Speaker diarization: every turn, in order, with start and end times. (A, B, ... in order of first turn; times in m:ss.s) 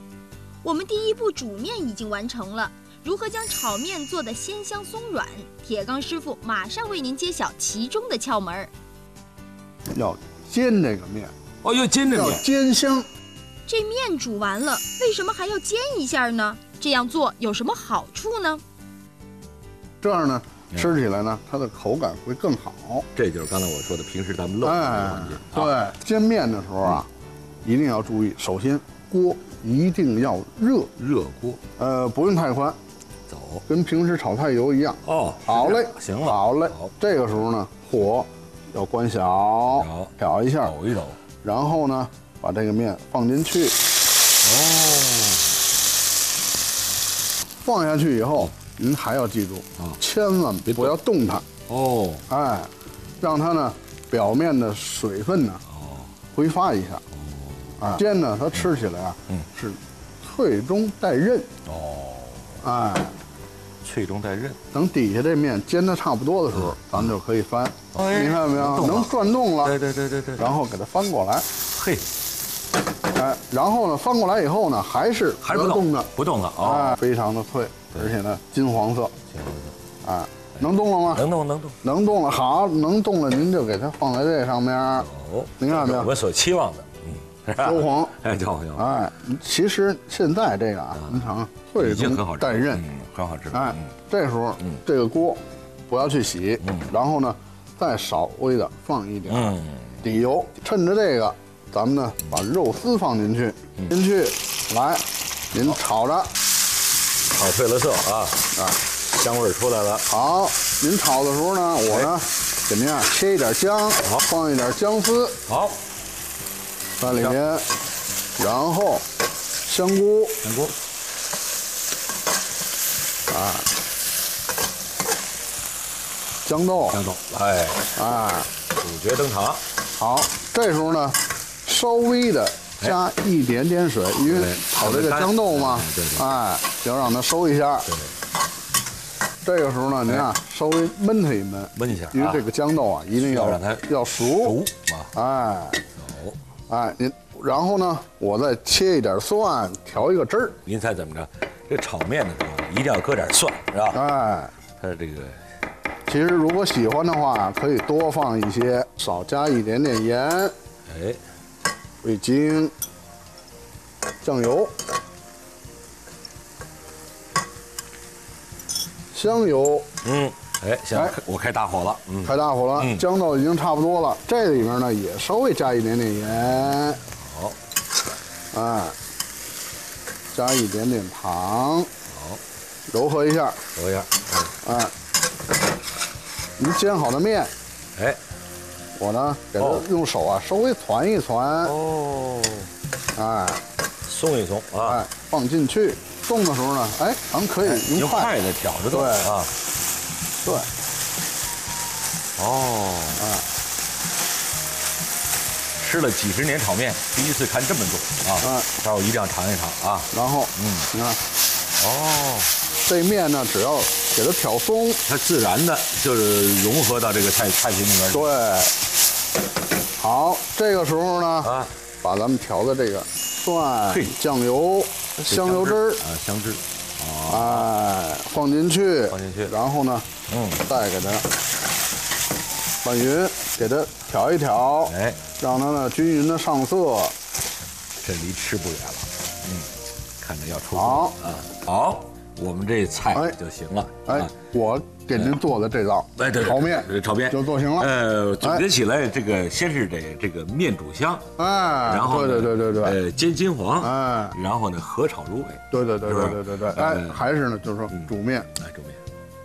0:00.6-0:08.7 A
0:09.9-0:11.3 B
0:11.6-0:12.4 C
0:12.1-0:13.1 B
0:13.7-0:18.6 A
0:20.0-0:23.0 B
0:23.1-0:25.8 C
0:24.6-0:27.1 B
0:27.6-0:30.9 B
0:31.0-0:31.6 C
0:31.8-0:32.8 B
0:33.3-0:33.6 C
0:33.7-0:40.7 B
0:35.0-0:36.9 C
0:39.7-0:41.2 C
0:41.4-0:43.8 B
0:44.4-0:45.5 C
0:47.6-0:51.4 B
0:50.7-0:51.0 C
0:51.7-0:52.2 C
0:52.3-0:55.6 B
0:55.7-0:56.1 C
0:56.3-0:57.0 B
0:57.2-0:57.7 C
0:57.8-1:01.5 B
1:01.6-1:02.6 C
1:02.6-1:03.1 B
1:03.8-1:04.6 C
1:04.7-1:09.7 B
1:06.5-1:07.1 C
1:07.9-1:10.6 C
1:10.4-1:11.4 B
1:11.7-1:12.0 C
1:13.1-1:19.1 B
1:15.4-1:17.0 C
1:19.3-1:19.8 C
1:20.0-1:21.2 B
1:20.6-1:21.8 C
1:21.8-1:25.1 B
1:25.0-1:28.9 C
1:25.6-1:26.1 B
1:27.6-1:28.2 B
1:28.8-1:32.8 B
1:30.9-1:33.9 C
1:33.5-1:46.3 B
1:36.6-1:36.9 C
1:39.3-1:40.0 C
1:47.3-1:48.5 C
1:48.5-1:48.8 B
1:49.0-1:50.1 C
1:50.1-1:55.4 B
1:55.4-1:55.8 C
1:57.0-1:57.7 B
1:57.0-1:57.4 C
1:58.4-1:59.0 B
1:59.6-2:00.4 B
2:00.4-2:00.7 C
2:03.3-2:03.7 B
2:06.4-2:07.0 B
2:06.9-2:07.9 C
2:07.9-2:08.5 B
2:08.7-2:09.6 C
2:10.0-2:17.9 B
2:14.2-2:16.3 C
2:17.8-2:18.1 C
2:19.4-2:24.6 B
2:21.7-2:22.4 C
2:23.1-2:25.1 C
2:25.1-2:25.8 B
2:26.0-2:26.4 C
2:26.7-2:30.6 B
2:30.6-2:34.0 C
2:33.9-2:34.5 B
2:34.8-2:35.4 C
2:36.0-2:40.5 B
2:40.9-2:41.2 C
2:42.0-2:42.7 B
2:44.2-2:44.7 B
2:49.1-2:49.9 B
2:50.0-2:53.0 C
2:52.2-2:57.0 B
2:57.1-2:57.6 C
2:58.5-2:59.0 B
3:00.3-3:01.9 B
3:02.1-3:02.4 C
3:02.9-3:03.6 B
3:03.7-3:04.5 C
3:04.6-3:04.9 B
3:06.6-3:07.5 B
3:08.9-3:11.7 B
3:09.6-3:09.9 C
3:11.6-3:12.7 C
3:13.1-3:13.6 B
3:14.0-3:15.0 C
3:14.8-3:18.3 B
3:17.6-3:19.5 C
3:18.9-3:19.3 B
3:20.4-3:20.7 B
3:22.4-3:23.2 C
3:23.2-3:23.4 B
3:25.8-3:30.9 C
3:28.4-3:28.7 B
3:30.1-3:31.2 B
3:31.8-3:32.5 C
3:32.8-3:35.0 B
3:35.0-3:38.3 C
3:38.1-3:38.7 B
3:40.0-3:46.0 B
3:41.4-3:41.7 C
3:43.9-3:44.2 C
3:45.3-3:47.7 C
3:47.3-3:50.0 B
3:49.1-3:49.5 C
3:50.3-3:50.6 C
3:50.6-3:51.2 B
3:52.8-3:57.1 B
3:54.8-3:55.2 C
3:58.0-4:04.3 C
4:00.7-4:01.2 B
4:03.1-4:03.4 B
4:04.0-4:08.6 B
4:06.2-4:17.2 C
4:11.4-4:13.0 B
4:13.8-4:14.4 B
4:15.7-4:18.5 B
4:17.9-4:19.0 C